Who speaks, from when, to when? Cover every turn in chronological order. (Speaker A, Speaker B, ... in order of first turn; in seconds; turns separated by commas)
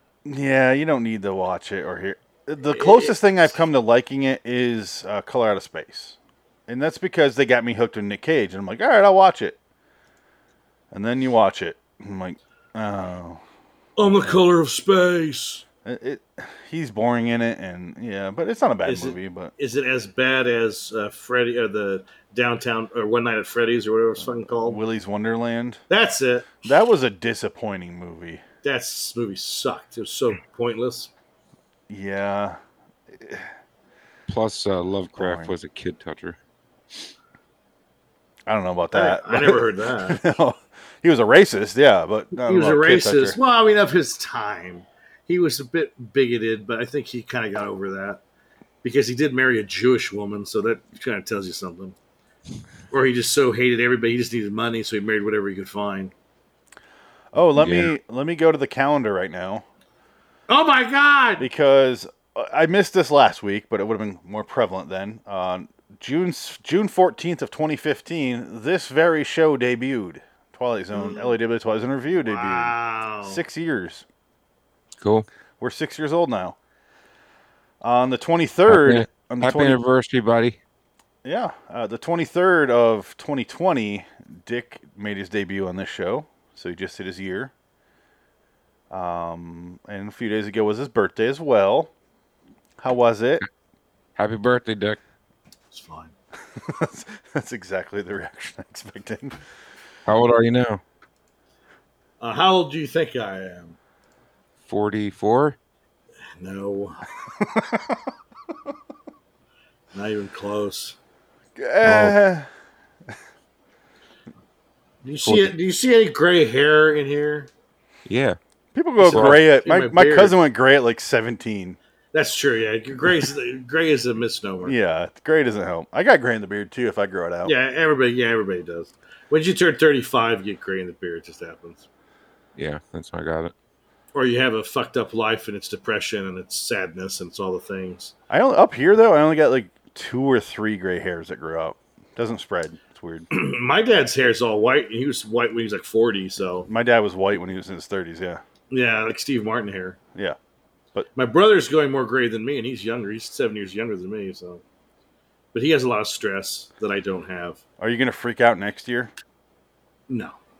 Speaker A: 0.2-6.2, Speaker B: 2.7-3.5, Speaker A: 6.7-9.6, Speaker A: 10.9-13.4, Speaker B: 14.0-15.6, Speaker A: 15.8-19.5, Speaker B: 18.8-24.8, Speaker A: 24.5-25.8, Speaker B: 25.9-26.6, Speaker A: 26.6-28.4, Speaker B: 28.6-31.1, Speaker A: 31.9-32.6, Speaker A: 33.2-33.5, Speaker C: 34.3-36.4, Speaker A: 35.1-35.5, Speaker A: 38.5-43.4, Speaker B: 38.9-40.2, Speaker B: 42.5-48.2, Speaker B: 48.8-51.9, Speaker B: 52.9-56.1, Speaker A: 57.3-59.6, Speaker C: 57.5-57.9, Speaker B: 60.5-61.5, Speaker A: 61.4-74.0, Speaker B: 70.9-71.3, Speaker B: 72.2-73.4, Speaker C: 75.0-75.2, Speaker A: 75.6-76.5, Speaker A: 77.8-79.8, Speaker C: 78.7-80.6, Speaker A: 81.2-87.5, Speaker A: 88.9-91.9, Speaker A: 92.8-93.4, Speaker C: 94.2-95.0, Speaker B: 95.7-96.1, Speaker A: 96.6-99.4, Speaker C: 100.0-100.8, Speaker B: 102.2-103.8, Speaker C: 104.6-105.6, Speaker B: 106.4-107.0, Speaker A: 107.5-107.9, Speaker B: 109.9-111.0, Speaker A: 111.6-112.5, Speaker C: 111.8-112.2, Speaker B: 115.0-117.5, Speaker C: 115.2-115.5, Speaker C: 118.0-118.4, Speaker A: 118.7-121.8, Speaker B: 119.0-120.3, Speaker C: 119.1-119.4, Speaker B: 122.1-124.7, Speaker A: 124.6-127.5, Speaker B: 127.4-131.8, Speaker C: 132.6-133.5, Speaker B: 134.1-138.1, Speaker A: 138.3-143.3, Speaker B: 143.3-146.7, Speaker A: 146.7-148.4, Speaker B: 148.7-150.0, Speaker B: 151.2-154.6, Speaker B: 155.5-157.6, Speaker A: 157.8-159.1, Speaker B: 160.1-160.3